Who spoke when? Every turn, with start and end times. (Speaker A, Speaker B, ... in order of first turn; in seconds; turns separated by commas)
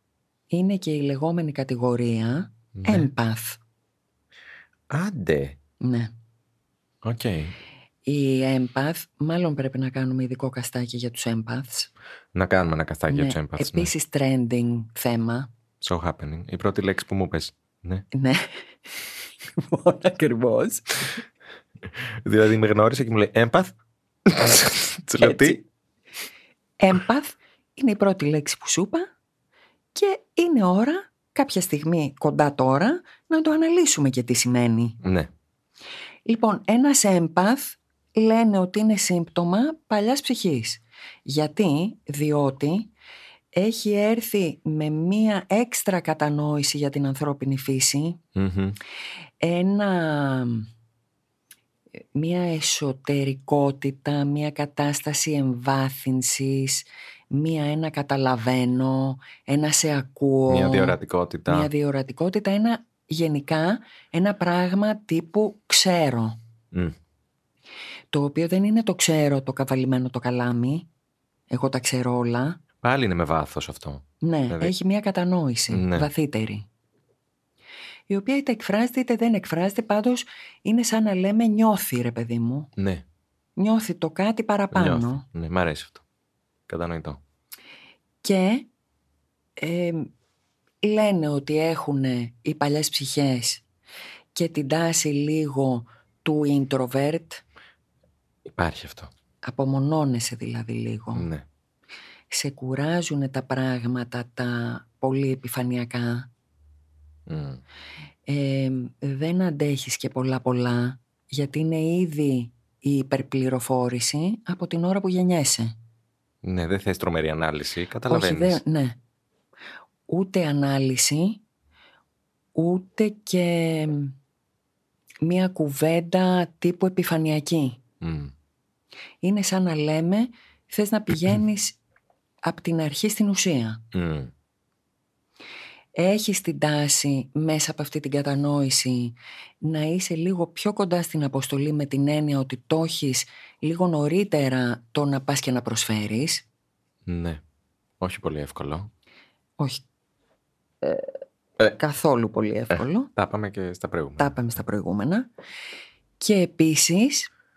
Speaker A: 0.5-3.6, Speaker B: 2.7-3.1, Speaker B: 4.9-5.6, Speaker A: 5.8-6.1, Speaker B: 7.0-7.5, Speaker A: 8.1-11.9, Speaker B: 12.3-13.9, Speaker A: 13.1-15.5, Speaker B: 15.8-18.0, Speaker A: 18.1-18.6, Speaker A: 19.5-21.1, Speaker B: 21.9-23.7, Speaker B: 24.2-25.6, Speaker A: 25.2-25.6, Speaker A: 26.8-29.1, Speaker A: 29.9-35.0, Speaker B: 35.0-35.3, Speaker A: 36.2-42.9, Speaker A: 43.5-48.2, Speaker B: 48.3-48.8, Speaker A: 49.4-50.7, Speaker A: 52.1-66.4, Speaker B: 60.5-61.7, Speaker A: 68.1-70.9, Speaker A: 71.5-72.6, Speaker B: 72.8-74.7, Speaker A: 74.2-76.7, Speaker B: 75.7-76.1, Speaker A: 78.1-82.7, Speaker B: 82.8-83.0, Speaker A: 83.6-85.2, Speaker B: 84.7-86.0, Speaker B: 86.7-87.2, Speaker A: 88.2-88.7, Speaker A: 89.6-90.1, Speaker A: 90.8-93.6, Speaker A: 94.3-97.4, Speaker B: 98.5-99.1, Speaker A: 99.4-101.3, Speaker B: 101.1-101.4, Speaker A: 102.3-106.3, Speaker B: 107.3-107.6, Speaker A: 108.3-115.7, Speaker B: 116.4-118.6, Speaker A: 118.1-119.0, Speaker A: 120.1-121.4, Speaker A: 122.5-124.1, Speaker A: 125.2-127.8, Speaker B: 128.0-128.3, Speaker A: 129.2-131.8, Speaker A: 132.4-133.8, Speaker B: 133.9-134.3, Speaker A: 135.9-146.4, Speaker B: 147.1-147.4, Speaker B: 148.0-148.9, Speaker A: 151.7-153.1, Speaker B: 152.7-154.3, Speaker A: 154.2-155.3, Speaker A: 156.2-157.3